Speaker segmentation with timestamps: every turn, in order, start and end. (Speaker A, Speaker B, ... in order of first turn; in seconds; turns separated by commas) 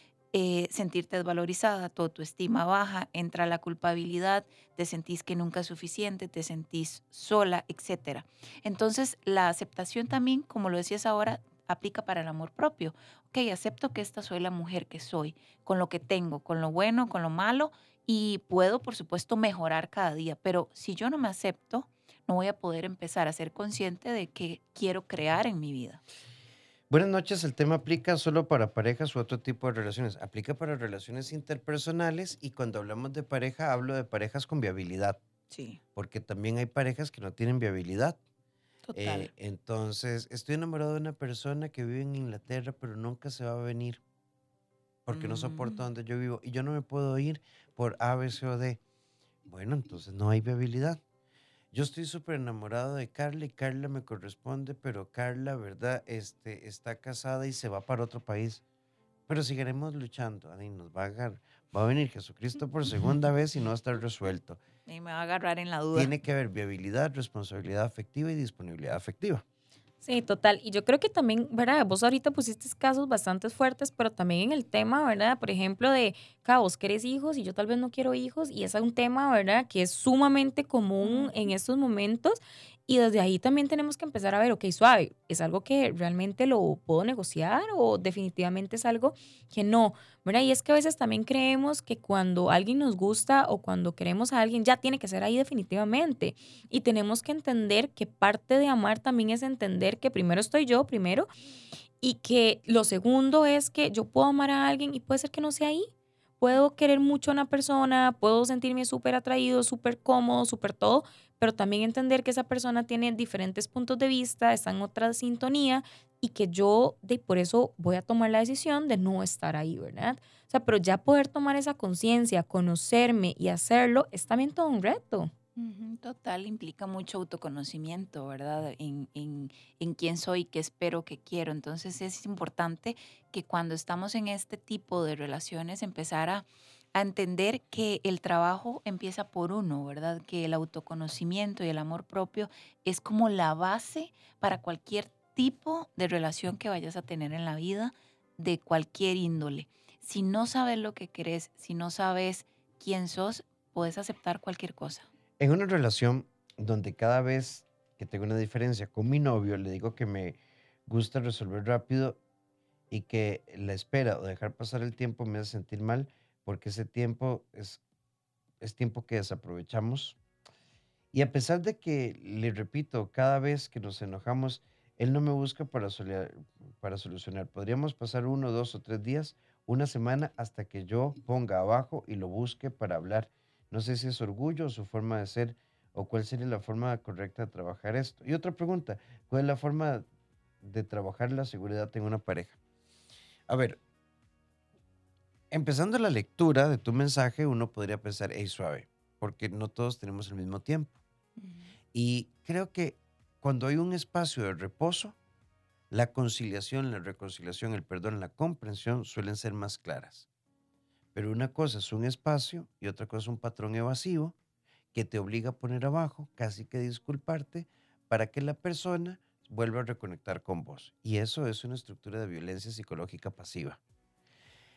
Speaker A: 0.3-26.0, Speaker B: 26.9-35.2, Speaker A: 35.5-35.8, Speaker B: 35.9-38.2, Speaker A: 38.9-39.3, Speaker B: 38.9-44.0, Speaker B: 45.0-48.8, Speaker A: 45.1-45.8, Speaker B: 49.4-51.0, Speaker B: 51.7-58.6, Speaker B: 59.3-64.6, Speaker A: 64.9-66.1, Speaker B: 65.9-69.4, Speaker C: 70.0-101.3, Speaker A: 81.0-81.3, Speaker C: 102.0-105.9, Speaker C: 106.4-125.3, Speaker A: 125.5-155.1, Speaker B: 155.4-162.2, Speaker B: 162.9-167.8, Speaker B: 168.6-170.2, Speaker B: 171.1-190.1, Speaker B: 190.6-192.6, Speaker B: 193.5-193.8, Speaker B: 195.5-200.9, Speaker B: 201.9-205.2, Speaker B: 205.9-210.2, Speaker B: 211.1-214.3, Speaker B: 214.9-223.8